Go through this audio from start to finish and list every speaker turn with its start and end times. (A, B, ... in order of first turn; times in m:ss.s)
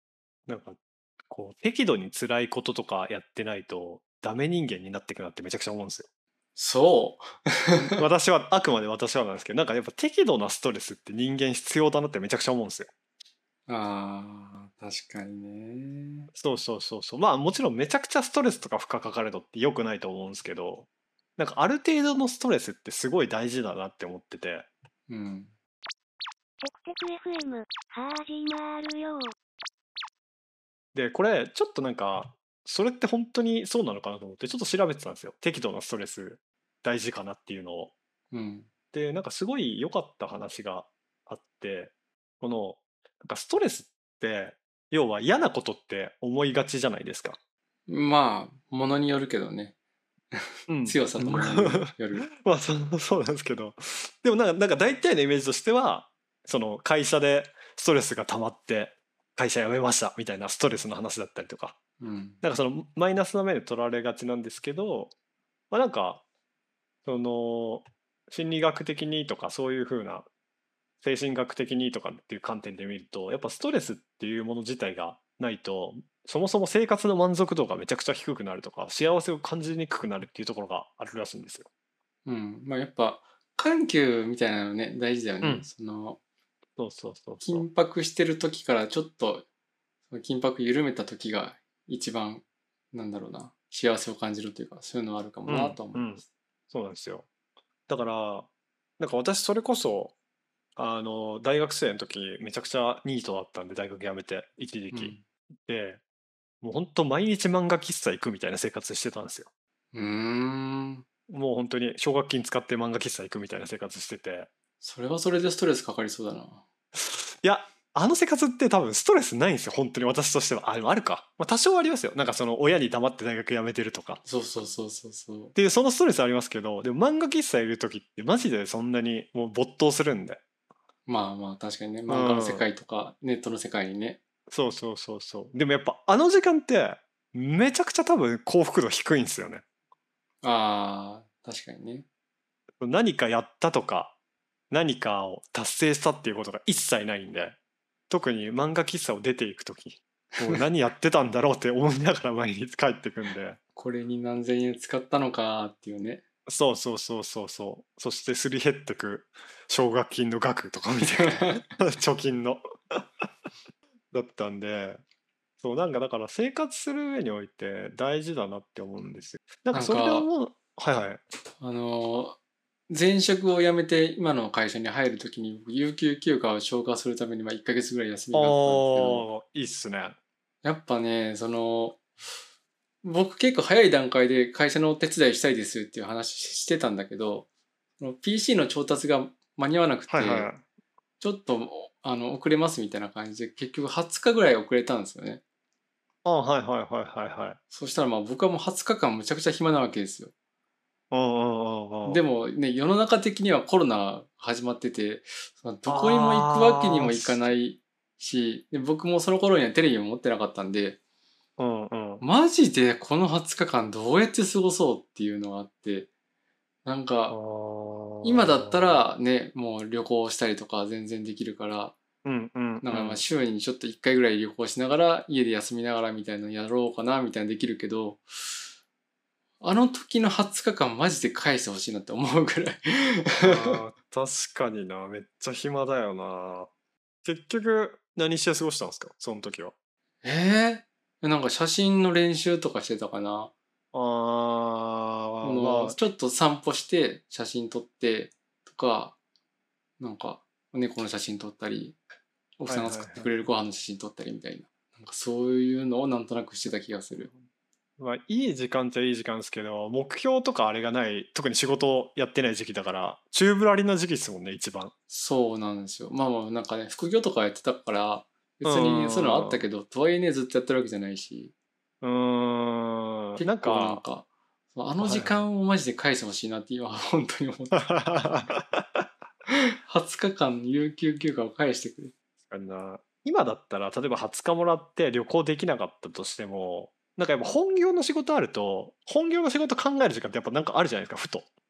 0:00.5-0:00.8 A
0:01.3-0:06.1 A
0:06.6-0:08.0 B
0:07.8-0:12.9 A
0:13.7-0:16.3 B
0:16.3-0:24.7 A
0:25.1-0:25.5 B
0:26.7-0:29.2 C
0:30.9-0:37.9 A
0:38.3-0:38.7 B
0:38.9-0:47.4 A
0:47.9-0:49.7 B
0:50.3-0:52.3 B
0:50.7-1:01.8 A
1:02.0-1:02.4 B
1:02.4-1:05.1 A
1:05.7-1:06.2 A
1:07.1-1:10.3 A
1:11.0-1:21.7 A
1:22.3-1:26.2 B
1:26.8-1:27.7 A
1:27.4-1:29.4 B
1:30.1-1:36.2 B
1:35.5-1:37.3 A
1:37.9-1:40.1 A
1:40.8-1:45.2 A
1:44.9-1:45.2 B
1:45.7-1:46.0 A
1:46.6-1:49.5 A
1:49.9-1:51.0 B
1:51.3-1:54.5 A
1:54.8-1:56.6 B
1:57.0-2:04.2 A
2:04.3-2:05.6 B
2:05.6-2:10.4 A
2:11.1-2:14.2 B
2:12.1-2:12.7 A
2:14.5-2:19.6 A
2:20.4-2:22.0 B
2:22.8-2:24.1 A
2:24.7-2:27.6 A
2:28.1-2:33.6 A
2:33.8-2:36.2 B
2:36.5-2:43.0 A
2:41.1-2:41.7 B
2:44.1-2:45.0 A
2:45.6-2:51.2 A
2:49.7-2:50.3 B
2:51.6-2:52.4 B
2:52.9-2:59.2 B
2:58.3-3:00.2 A
3:00.6-3:02.0 B
3:03.0-3:07.5 B
3:08.0-3:10.5 B
3:10.1-3:10.6 A
3:11.2-3:15.4 B
3:16.2-3:17.6 A
3:17.7-3:20.3 B
3:21.1-3:22.2 A
3:22.0-3:31.0 B
3:25.9-3:27.5 A
3:31.6-3:32.2 A
3:32.2-3:36.1 B
3:36.8-3:37.4 B
3:37.3-3:39.0 A
3:38.2-3:42.0 B
3:42.2-3:43.2 A
3:42.8-3:48.7 B
3:49.6-3:53.8 B
3:53.4-3:56.7 A
3:57.2-3:59.7 A
4:00.2-4:03.5 B
4:03.9-4:06.0 A
4:05.4-4:09.2 B
4:10.0-4:12.0 B
4:12.6-4:17.3 B
4:12.7-4:13.3 A
4:18.0-4:24.9 A
4:25.1-4:31.5 B
4:28.6-4:29.6 A
4:32.0-4:34.0 A
4:33.4-4:37.7 B
4:35.0-4:35.4 A
4:37.7-4:39.0 A
4:39.7-4:42.1 B
4:42.5-4:51.5 A